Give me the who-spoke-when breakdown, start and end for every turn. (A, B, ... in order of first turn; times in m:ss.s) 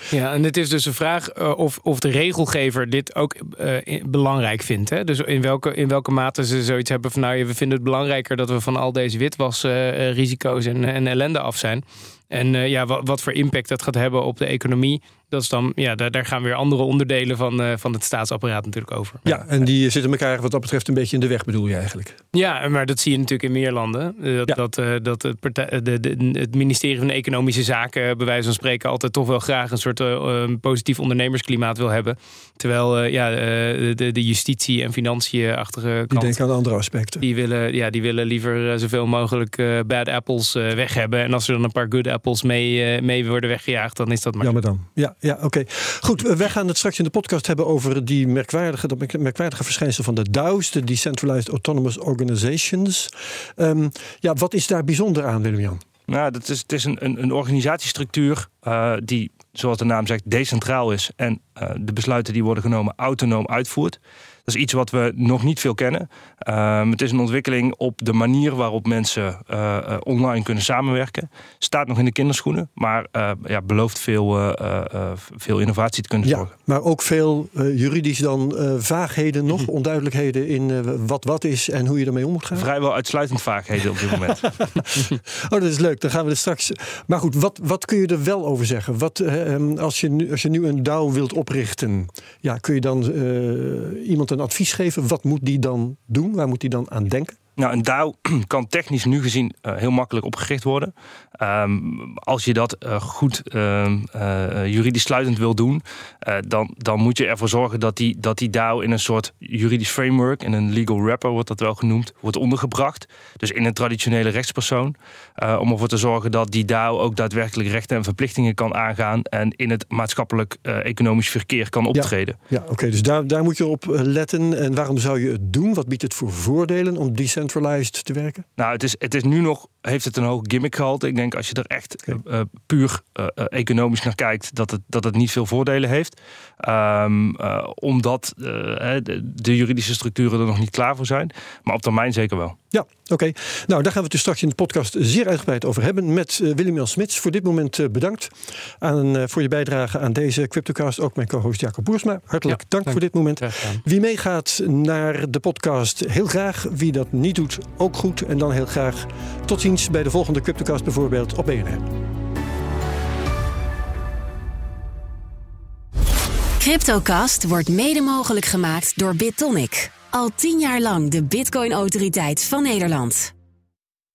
0:00.1-0:19.4 A
0:19.3-0:22.2 B
0:22.3-0:36.4 A
0:36.1-0:37.2 B
0:37.2-0:44.6 A
0:44.4-0:55.8 B
0:56.1-1:16.5 C
1:16.2-1:22.7 B
1:22.5-1:24.8 C
1:24.2-1:37.4 B
1:37.6-2:02.4 C
2:01.9-2:08.5 B
2:08.6-2:22.6 C
2:22.7-2:41.8 B
2:32.5-2:33.8 A
2:46.6-2:53.3 D